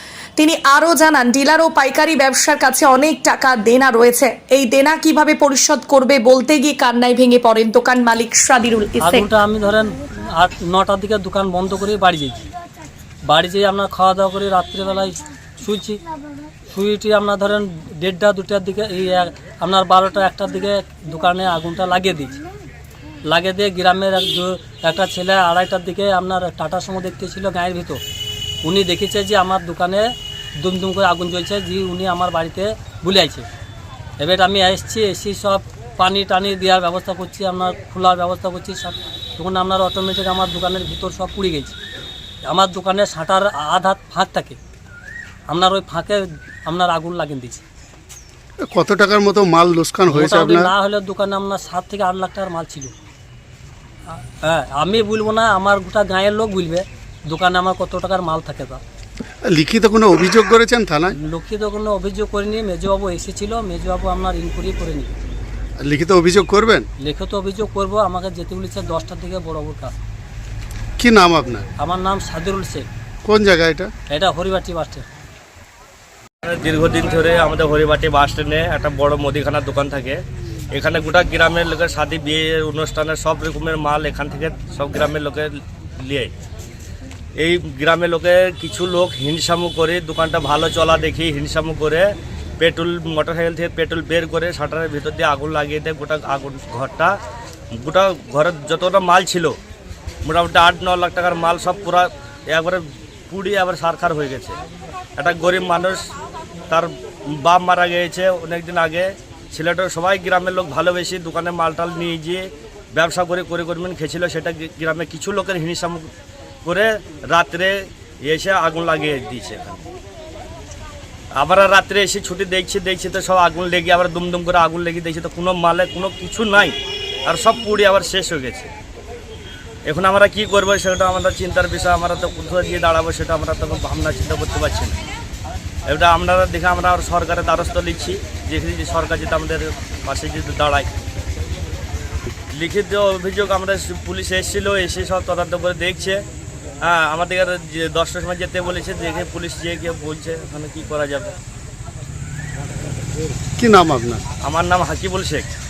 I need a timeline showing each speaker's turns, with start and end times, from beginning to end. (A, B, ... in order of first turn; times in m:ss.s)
0:00.4-0:09.3 A
0:09.0-0:12.4 B
0:13.3-0:16.0 B
0:16.7-0:22.4 B
0:23.3-0:28.0 B
0:28.6-0:30.0 B
0:30.6-0:33.5 B
0:34.2-0:41.8 B
0:42.5-0:44.6 B
0:45.5-0:47.6 B
0:48.6-0:50.7 C
0:50.1-0:52.9 B
0:54.1-0:58.8 B
0:59.4-1:01.2 C
1:01.1-1:05.1 B
1:05.8-1:06.9 C
1:07.0-1:09.9 B
1:11.0-1:11.7 C
1:11.8-1:12.9 B
1:13.2-1:13.9 C
1:14.1-1:15.1 B
1:16.4-1:20.2 D
1:20.7-1:26.3 D
1:27.4-1:32.1 D
1:32.6-1:37.1 D
1:37.7-1:39.5 D
1:40.2-1:44.6 D
1:45.2-1:46.1 D
1:46.7-1:56.1 D
1:56.6-1:59.9 D
2:01.4-2:06.7 D
2:07.3-2:08.7 D
2:09.8-2:14.9 D
2:15.9-2:20.9 D
2:22.5-2:26.2 D
2:26.8-2:31.3 D
2:33.6-2:34.2 C
2:34.4-2:35.5 D